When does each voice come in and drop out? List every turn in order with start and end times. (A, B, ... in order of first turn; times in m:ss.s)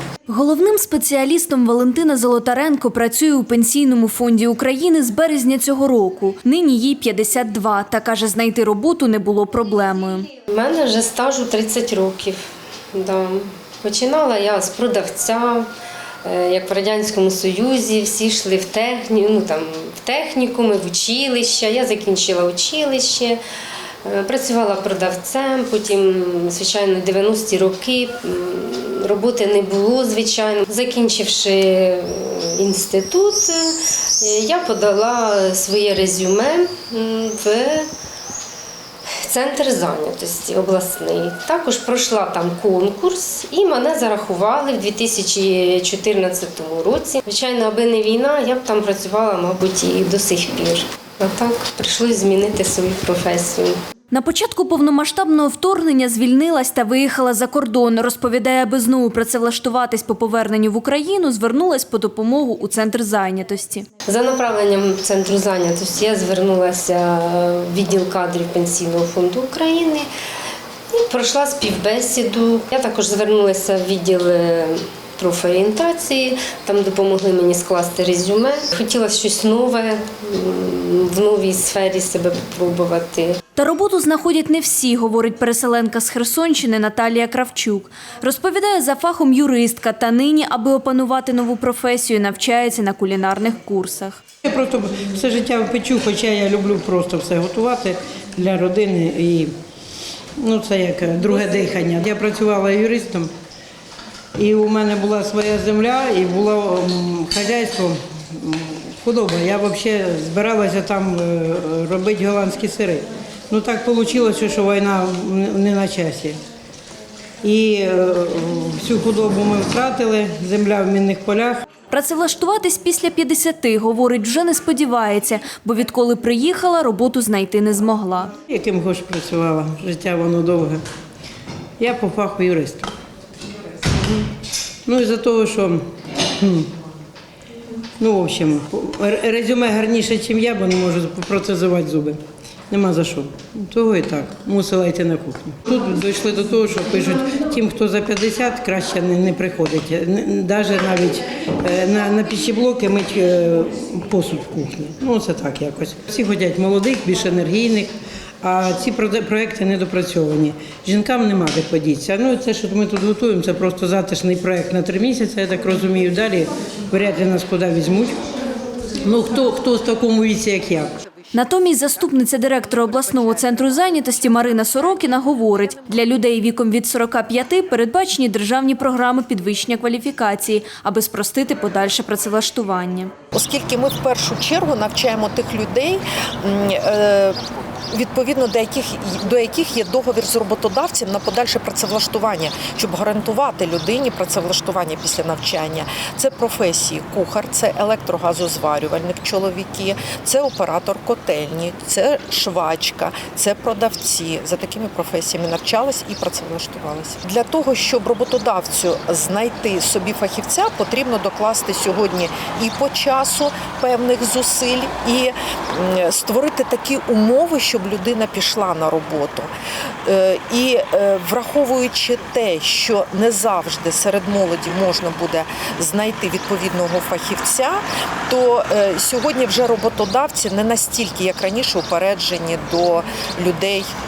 0:00.3-0:10.3 A
0:10.4-0:15.7 B
0:16.2-0:23.4 B
0:24.0-0:37.9 B
0:39.2-0:53.8 B
0:54.1-1:03.9 A
1:04.0-1:10.1 B
1:10.9-1:23.4 B
1:23.6-1:34.2 A
1:34.4-1:39.5 C
1:40.4-1:43.3 C
1:44.4-1:56.4 C
1:57.4-2:01.7 C
2:01.9-2:08.3 A
2:08.5-2:10.8 C
2:11.8-2:12.9 C
2:14.8-2:16.7 C
2:18.0-2:48.2 C
2:49.0-2:50.9 C
2:51.3-3:03.1 A
3:03.3-3:39.5 D
3:40.0-3:53.9 D